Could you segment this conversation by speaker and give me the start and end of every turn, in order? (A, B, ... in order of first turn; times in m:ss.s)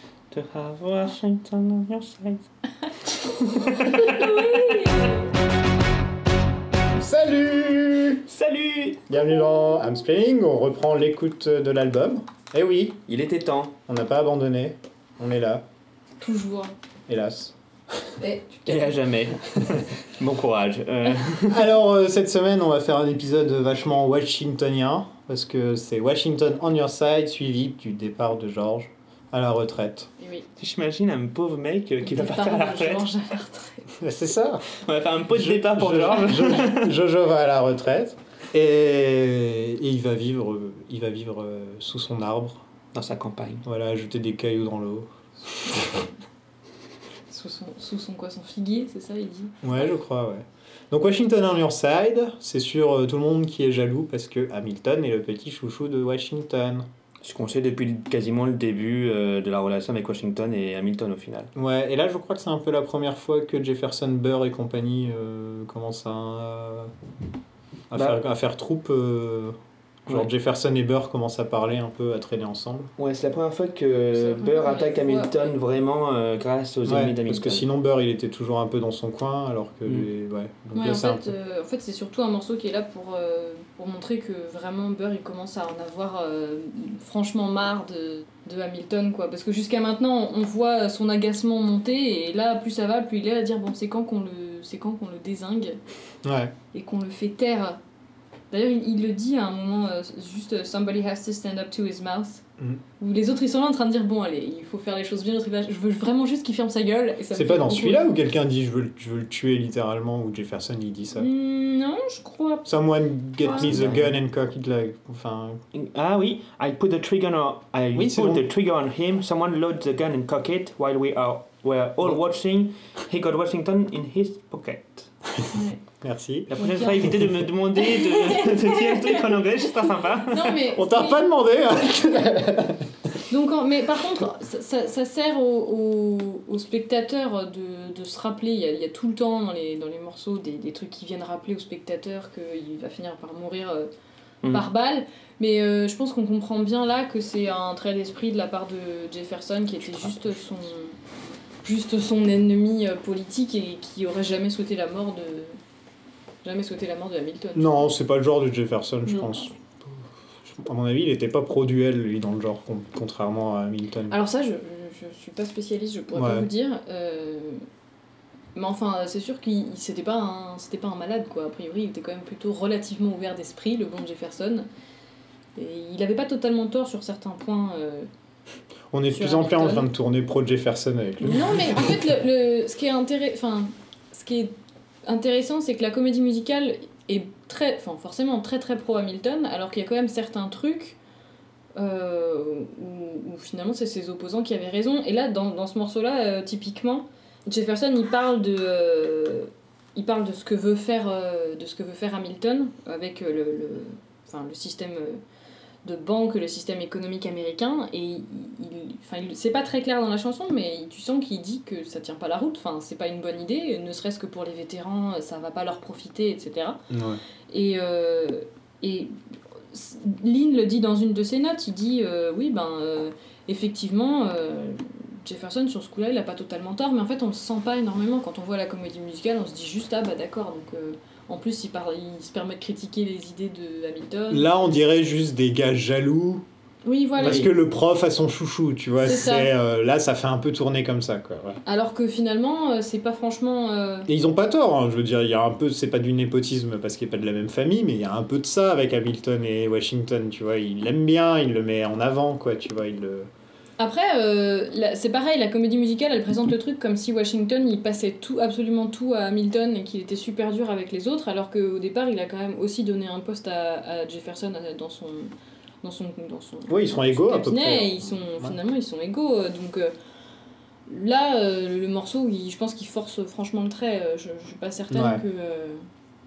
0:00.3-0:02.4 A
0:03.2-0:04.0 A
0:03.8-0:05.3 B
0:07.0-0:08.2 C
0:08.3-0:09.1 A
0:09.1-0:13.0 C
0:13.1-0:13.8 A
0:13.9-0:15.7 C
0:16.2-0:16.8 B
0:17.1-0:17.5 C
0:18.2-0:18.8 B
0:18.7-0:21.7 A
0:21.5-0:30.1 C
0:30.2-0:30.5 B
0:30.6-0:33.1 A
0:32.0-0:33.9 B
0:34.0-0:34.7 C
0:34.7-0:37.0 A
0:35.3-0:42.6 C
0:42.9-0:43.6 A
0:43.6-0:46.0 C
0:47.3-0:49.9 B
0:49.6-0:56.9 C
0:57.2-1:01.5 A
1:01.6-1:06.9 C
1:07.9-1:12.9 C
1:07.9-1:08.2 A
1:13.0-1:17.7 A
1:14.2-1:15.6 B
1:16.9-1:21.3 C
1:20.8-1:35.8 B
1:36.2-1:36.5 C
1:36.7-1:37.8 B
1:38.5-1:42.4 B
1:43.0-1:48.1 B
1:47.3-1:51.3 C
1:51.2-1:52.7 B
1:52.6-1:55.6 C
1:53.4-1:53.8 B
1:53.5-1:54.2 A
1:55.7-2:05.1 A
1:58.0-1:58.4 C
2:05.5-2:05.8 B
2:06.0-2:07.3 C
2:06.5-2:10.6 A
2:06.6-2:07.1 B
2:07.8-2:11.3 B
2:10.7-2:12.9 C
2:13.3-2:23.9 B
2:24.5-2:31.0 B
2:31.6-2:35.6 B
2:36.4-2:37.9 B
2:37.6-2:39.5 C
2:39.1-2:39.4 B
2:40.5-2:44.2 C
2:44.1-2:47.6 B
2:46.1-2:46.5 C
2:48.6-2:54.7 B
2:55.6-2:58.1 B
2:58.9-3:01.9 C
2:59.1-2:59.9 B
3:01.2-3:11.0 B
3:11.8-3:25.2 B
3:25.8-3:36.8 B
3:36.9-3:37.2 C
3:37.5-3:39.1 B
3:39.7-3:54.5 B
3:54.3-3:56.4 C
3:56.8-3:57.5 B
3:57.2-4:01.6 C
3:59.0-3:59.5 B
4:01.7-4:04.1 B
4:04.1-4:13.3 C
4:13.8-4:29.9 B
4:26.7-4:28.6 C
4:30.9-4:35.8 B
4:34.9-4:35.2 C